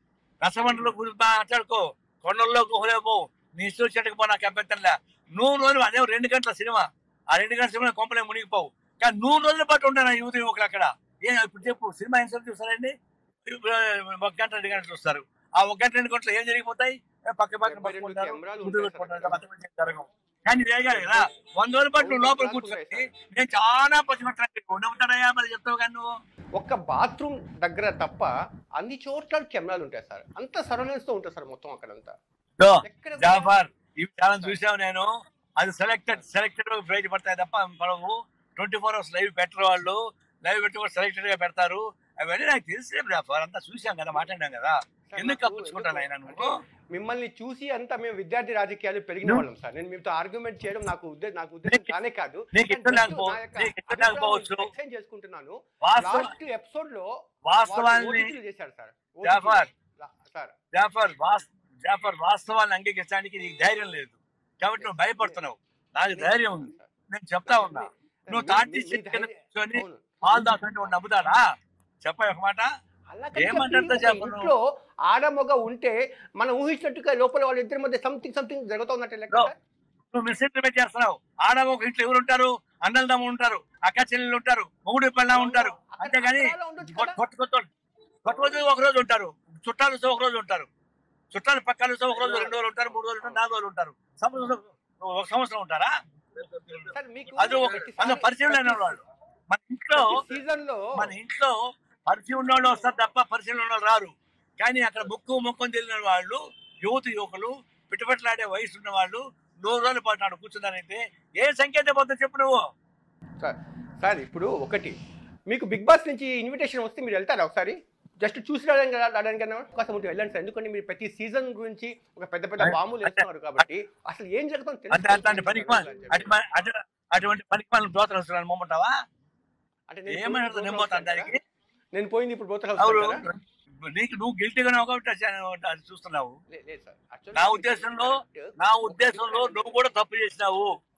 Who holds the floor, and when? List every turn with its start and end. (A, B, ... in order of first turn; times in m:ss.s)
0:00.4-0:12.9 A
0:13.4-0:26.0 A
0:17.6-0:19.4 B
0:20.9-0:21.2 B
0:22.0-0:23.1 B
0:26.6-0:32.1 B
0:32.6-0:35.1 A
0:32.8-0:33.6 B
0:34.3-0:34.6 B
0:35.6-0:46.5 A
0:45.1-0:57.1 B
0:51.7-0:51.9 A
0:52.5-0:54.7 A
0:55.8-0:56.3 A
0:57.5-0:58.3 A
0:57.6-1:00.5 B
0:59.2-0:59.7 A
1:00.7-1:11.4 A
1:04.8-1:05.4 B
1:06.1-1:06.9 B
1:07.5-1:11.1 B
1:12.0-1:12.6 A
1:13.1-1:19.6 B
1:13.4-1:14.5 A
1:20.1-1:27.6 A
1:25.3-1:27.2 B
1:28.2-1:30.7 A
1:31.3-1:40.2 A
1:32.1-1:32.6 B
1:36.9-1:39.0 B
1:40.0-1:41.1 B
1:40.9-1:41.6 A
1:42.1-1:52.6 A
1:53.4-1:54.9 B
1:55.5-2:06.4 B
2:02.6-2:03.6 A
2:04.9-2:08.9 A
2:09.9-2:11.3 B
2:10.1-2:11.4 A
2:11.9-2:13.2 B
2:12.8-2:16.3 A
2:16.5-2:19.8 B
2:17.4-2:20.7 A